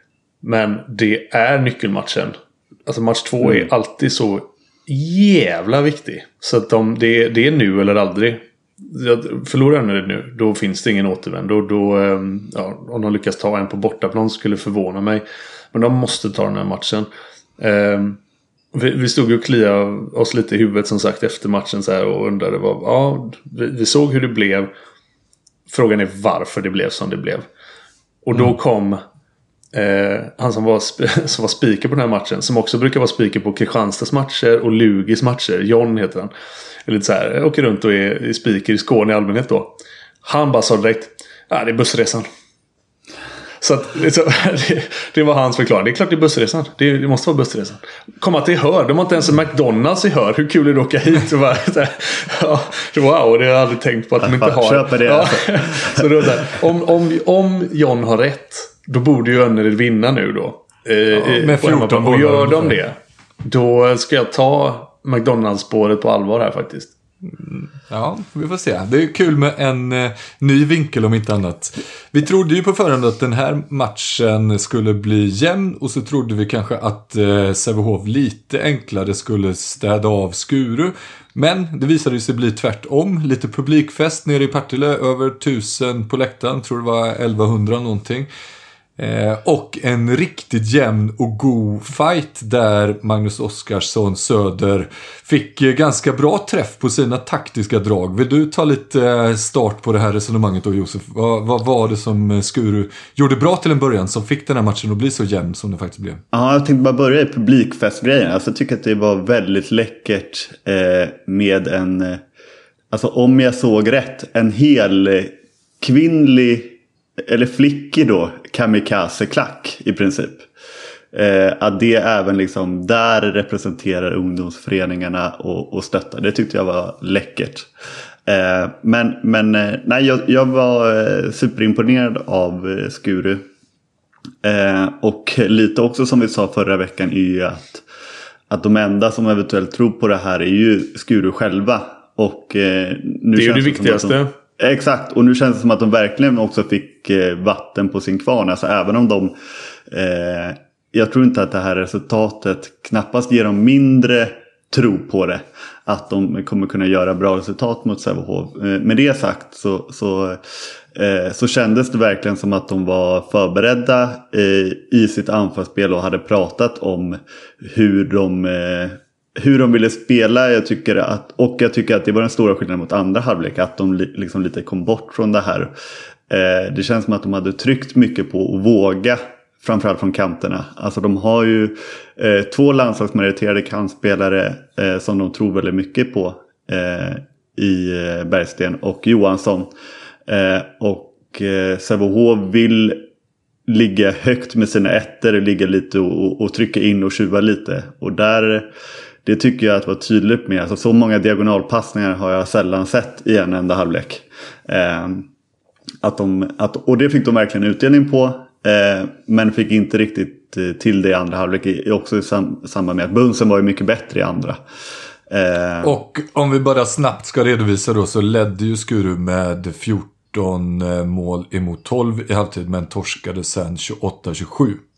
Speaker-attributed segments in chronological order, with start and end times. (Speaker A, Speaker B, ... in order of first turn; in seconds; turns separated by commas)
Speaker A: 0.4-2.3, Speaker A: 2.9-17.1, Speaker B: 3.4-3.7, Speaker A: 17.6-18.2, Speaker A: 18.7-24.7, Speaker A: 25.7-27.5, Speaker A: 28.2-29.0, Speaker A: 29.7-36.3, Speaker A: 36.9-42.2, Speaker A: 43.6-66.9, Speaker B: 54.2-56.3, Speaker C: 61.1-62.8, Speaker C: 67.2-88.3, Speaker C: 89.0-106.2, Speaker B: 106.3-112.2, Speaker B: 112.9-120.5, Speaker B: 121.1-127.7, Speaker B: 128.2-133.4, Speaker B: 134.4-137.8, Speaker B: 138.5-149.3, Speaker A: 143.3-144.3, Speaker B: 149.9-160.4, Speaker B: 160.9-175.7, Speaker B: 176.3-189.7, Speaker B: 190.3-193.0, Speaker B: 193.7-198.7, Speaker B: 199.2-205.3, Speaker B: 206.0-214.6, Speaker B: 215.3-216.0, Speaker C: 215.8-224.8